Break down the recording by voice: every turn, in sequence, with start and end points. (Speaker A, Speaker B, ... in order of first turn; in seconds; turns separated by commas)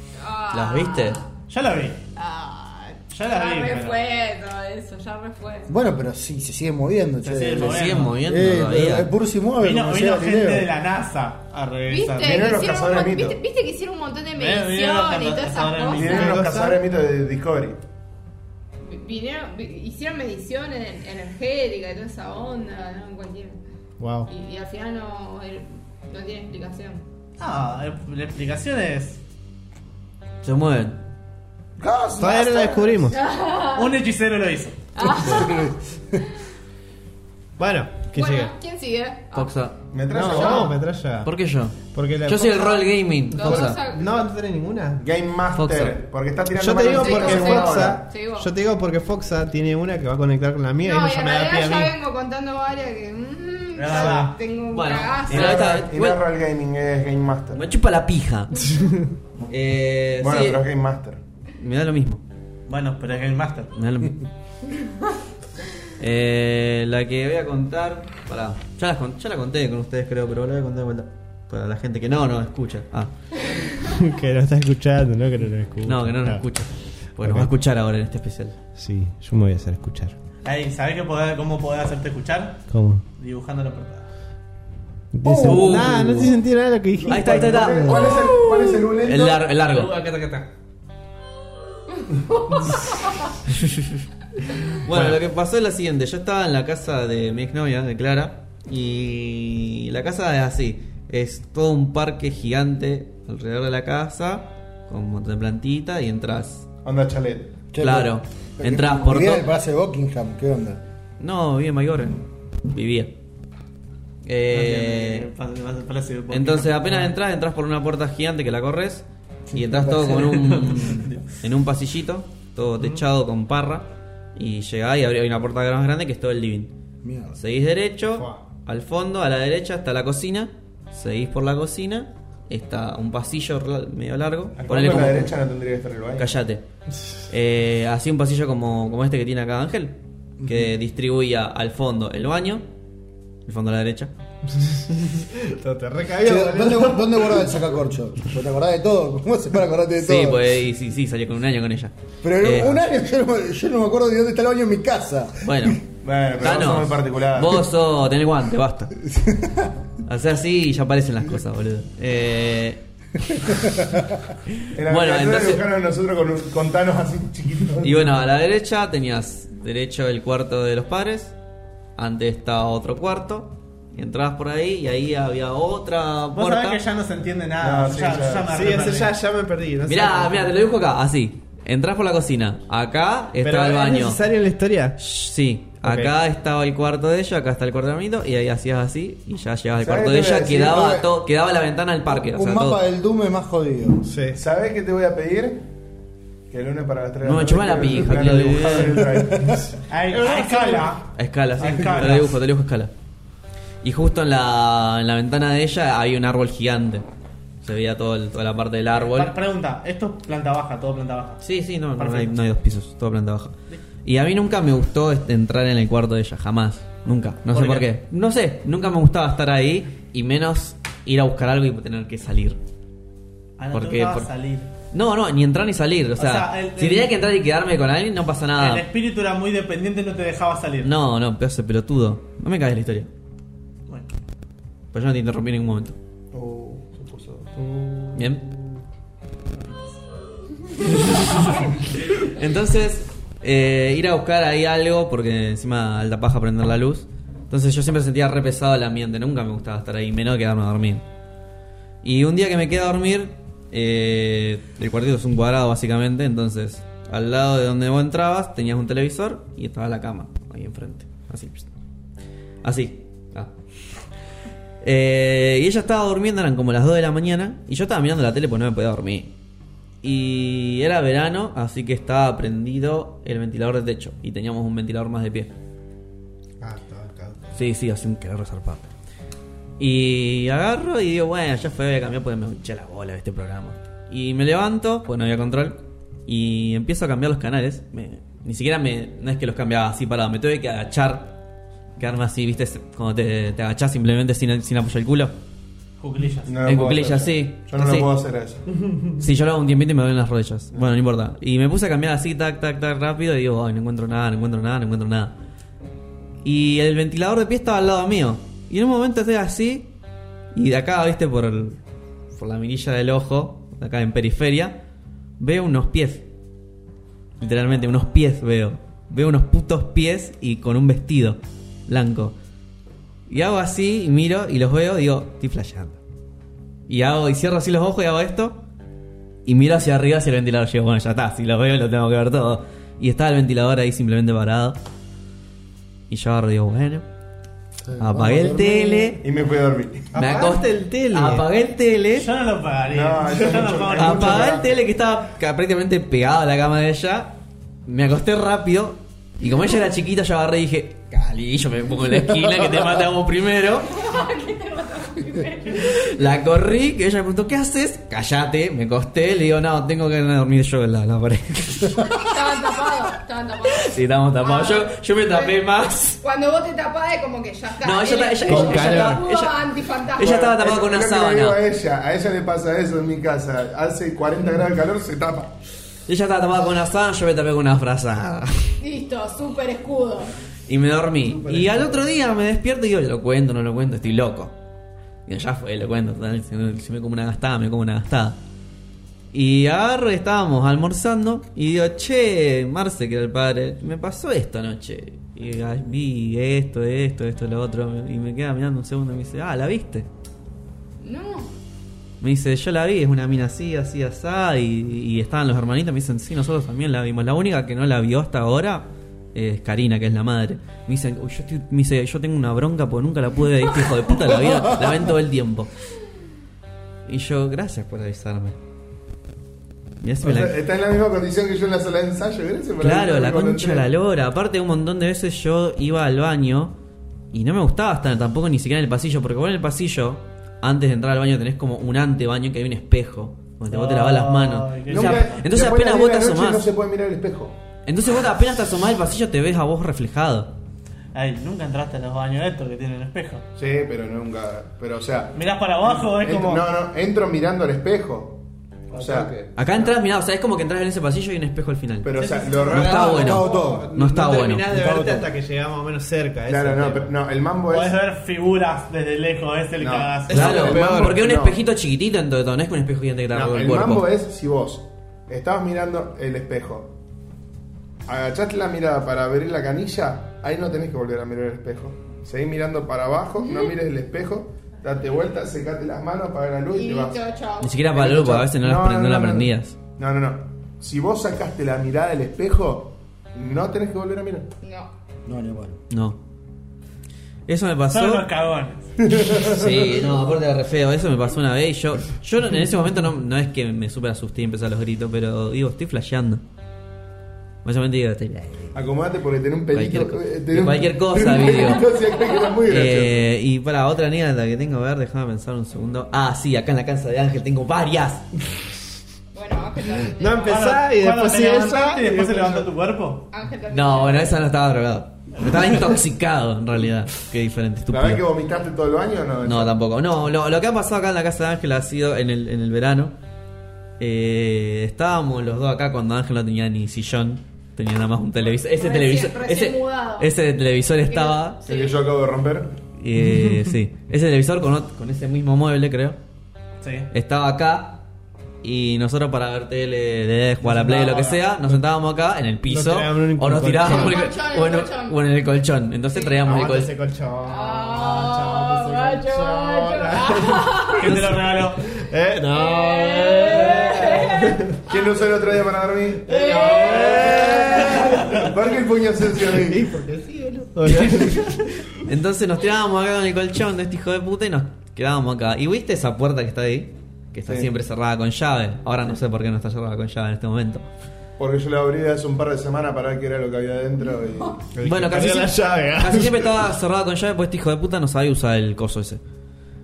Speaker A: 0.2-1.3, Speaker B: 0.5-1.2, Speaker C: 1.5-2.0, Speaker A: 2.1-5.7, Speaker C: 3.1-4.0, Speaker D: 5.7-10.7, Speaker C: 7.2-8.2, Speaker B: 7.6-9.1, Speaker C: 9.6-12.3, Speaker A: 11.9-16.4, Speaker E: 12.2-13.4, Speaker C: 14.3-16.4, Speaker E: 15.9-17.8, Speaker A: 18.8-23.6, Speaker F: 24.0-24.3, Speaker A: 24.3-27.0, Speaker C: 27.4-29.2, Speaker B: 30.4-31.0, Speaker E: 31.8-33.1, Speaker F: 32.2-33.1, Speaker A: 33.1-33.9, Speaker C: 33.7-34.8, Speaker A: 35.0-35.7, Speaker F: 35.2-35.5, Speaker D: 35.4-35.6, Speaker F: 37.6-38.5, Speaker A: 38.1-39.5, Speaker B: 39.3-43.8, Speaker E: 39.9-40.8, Speaker F: 40.1-41.3, Speaker A: 40.2-40.7, Speaker F: 41.9-42.5, Speaker A: 42.4-44.2, Speaker F: 43.5-45.0, Speaker E: 45.0-48.1, Speaker B: 45.5-45.9, Speaker F: 46.5-51.9, Speaker A: 46.9-48.5, Speaker A: 50.8-55.7, Speaker C: 53.8-54.4, Speaker B: 54.7-56.2, Speaker E: 55.3-57.6, Speaker B: 57.5-58.7, Speaker B: 59.5-60.6, Speaker E: 60.2-61.2, Speaker B: 61.6-62.2, Speaker C: 62.7-63.7, Speaker B: 63.7-64.2, Speaker B: 66.0-73.1, Speaker F: 73.8-76.5, Speaker B: 75.8-78.5, Speaker F: 77.2-77.5, Speaker F: 78.8-80.1, Speaker C: 80.4-84.0, Speaker F: 82.7-83.0, Speaker F: 85.1-88.4, Speaker D: 85.2-86.4, Speaker B: 85.4-86.2, Speaker E: 87.1-89.5, Speaker B: 87.1-89.9, Speaker F: 89.7-90.5, Speaker A: 92.5-93.2, Speaker B: 93.5-94.0, Speaker B: 94.8-106.7, Speaker F: 94.8-95.2, Speaker E: 106.8-107.6, Speaker D: 107.7-110.8, Speaker B: 107.8-109.5, Speaker B: 111.2-113.1, Speaker B: 114.2-115.3, Speaker C: 114.5-117.1, Speaker B: 116.3-126.7, Speaker C: 119.8-121.2, Speaker D: 127.0-127.3, Speaker B: 127.3-135.3, Speaker E: 134.6-136.3, Speaker B: 136.2-136.6, Speaker B: 137.3-142.6, Speaker D: 140.4-140.7, Speaker B: 143.4-144.1, Speaker F: 144.6-147.4, Speaker D: 146.2-150.6, Speaker B: 150.0-152.8, Speaker D: 152.2-155.8, Speaker B: 155.4-155.8, Speaker E: 156.0-157.7, Speaker B: 156.4-158.9, Speaker D: 159.1-159.7, Speaker B: 160.1-162.8, Speaker D: 163.6-164.0, Speaker E: 164.7-168.2, Speaker B: 164.9-165.6, Speaker B: 167.8-171.3, Speaker B: 172.0-176.8, Speaker C: 176.3-179.2, Speaker E: 177.6-178.7, Speaker F: 178.5-180.5, Speaker B: 179.8-184.2, Speaker F: 183.4-185.0, Speaker B: 185.0-192.8, Speaker F: 185.8-186.1, Speaker E: 189.8-191.1, Speaker D: 192.1-194.1, Speaker F: 194.0-194.4, Speaker E: 194.3-195.6, Speaker E: 196.5-200.9, Speaker B: 197.2-199.0, Speaker D: 199.1-199.6, Speaker C: 199.9-201.0, Speaker B: 201.1-202.9, Speaker C: 201.6-202.3, Speaker B: 203.8-207.1, Speaker B: 207.6-209.3, Speaker C: 208.9-211.4, Speaker B: 211.4-222.6, Speaker C: 212.0-212.4, Speaker C: 217.5-217.9, Speaker C: 223.6-224.7, Speaker B: 223.7-224.3, Speaker B: 224.9-228.8, Speaker C: 226.2-227.2, Speaker C: 228.6-230.9, Speaker B: 230.8-233.1, Speaker B: 234.9-235.9, Speaker E: 236.3-238.7, Speaker B: 238.1-238.4, Speaker B: 240.8-251.0, Speaker B: 252.0-261.7, Speaker B: 262.6-263.5, Speaker B: 264.8-269.3, Speaker B: 270.0-275.5, Speaker F: 276.6-277.5, Speaker B: 277.5-278.9, Speaker B: 279.8-291.3, Speaker B: 292.0-295.3, Speaker C: 296.0-296.5, Speaker E: 296.4-298.6, Speaker B: 296.6-298.1, Speaker B: 299.2-305.3, Speaker B: 306.4-309.9, Speaker B: 310.5-311.8, Speaker B: 312.3-314.8, Speaker B: 315.4-316.2, Speaker B: 317.4-322.4, Speaker B: 323.3-326.0, Speaker B: 326.9-328.6, Speaker B: 329.4-334.8, Speaker B: 336.1-337.0, Speaker D: 337.8-339.2, Speaker B: 338.0-339.2, Speaker E: 339.2-340.4, Speaker F: 340.1-341.4, Speaker B: 340.1-342.3, Speaker C: 342.1-344.5, Speaker E: 342.9-344.8, Speaker B: 343.9-347.3, Speaker B: 347.9-354.0, Speaker A: 353.9-356.1, Speaker B: 355.7-362.4, Speaker A: 362.2-365.7, Speaker B: 363.8-366.2, Speaker A: 366.2-370.4, Speaker B: 367.8-369.6, Speaker F: 368.4-369.2, Speaker B: 370.1-371.6, Speaker E: 370.2-375.5, Speaker B: 376.1-378.7, Speaker A: 378.8-380.3, Speaker B: 380.7-384.5, Speaker E: 381.3-382.0, Speaker B: 385.3-388.4, Speaker B: 389.3-400.1, Speaker A: 401.0-401.5, Speaker B: 402.2-415.7, Speaker B: 417.1-418.6, Speaker B: 420.0-420.5, Speaker E: 420.2-423.9, Speaker B: 422.8-426.7, Speaker B: 427.3-436.6, Speaker C: 433.7-435.4, Speaker E: 434.9-437.6, Speaker B: 437.9-440.5, Speaker C: 441.1-443.4, Speaker E: 443.6-449.3, Speaker C: 445.3-446.6, Speaker F: 448.9-449.5, Speaker B: 449.6-452.1, Speaker E: 452.0-453.3, Speaker C: 452.2-452.9, Speaker F: 452.5-457.1, Speaker B: 452.7-454.6, Speaker D: 452.9-453.9, Speaker D: 454.7-455.3, Speaker E: 456.5-458.0, Speaker C: 457.7-460.7, Speaker E: 459.8-461.6, Speaker B: 460.3-464.1, Speaker F: 460.4-460.9, Speaker E: 463.3-466.9, Speaker E: 468.1-477.2, Speaker A: 476.7-477.8, Speaker B: 477.6-479.8, Speaker E: 477.9-484.5, Speaker A: 484.6-484.9, Speaker D: 485.2-485.8, Speaker B: 485.9-486.2, Speaker B: 487.5-488.2, Speaker C: 487.9-488.9, Speaker E: 489.1-490.0, Speaker B: 489.5-496.4, Speaker B: 497.6-498.8, Speaker E: 498.7-503.2, Speaker B: 499.7-501.9, Speaker B: 502.7-508.2, Speaker A: 509.3-510.8, Speaker F: 509.9-512.6, Speaker C: 510.5-513.2, Speaker A: 513.3-514.4, Speaker B: 513.7-518.2, Speaker E: 517.9-519.8, Speaker B: 519.4-523.1, Speaker B: 524.0-531.6, Speaker A: 528.4-530.3, Speaker A: 531.0-532.0, Speaker E: 531.6-532.8, Speaker B: 533.0-536.2, Speaker C: 536.8-537.1, Speaker B: 537.1-538.0, Speaker B: 538.6-546.9, Speaker F: 540.6-541.7, Speaker F: 542.6-544.2, Speaker A: 543.8-545.3, Speaker A: 546.1-546.6, Speaker F: 546.4-554.8, Speaker A: 547.4-551.1, Speaker C: 551.0-551.8, Speaker A: 552.5-555.2, Speaker E: 554.9-556.3, Speaker A: 556.3-558.2, Speaker F: 556.3-558.5, Speaker E: 558.3-559.9, Speaker F: 559.4-561.9, Speaker B: 560.9-561.4, Speaker B: 562.0-570.9, Speaker E: 571.4-574.6, Speaker F: 574.7-576.6, Speaker B: 574.8-579.2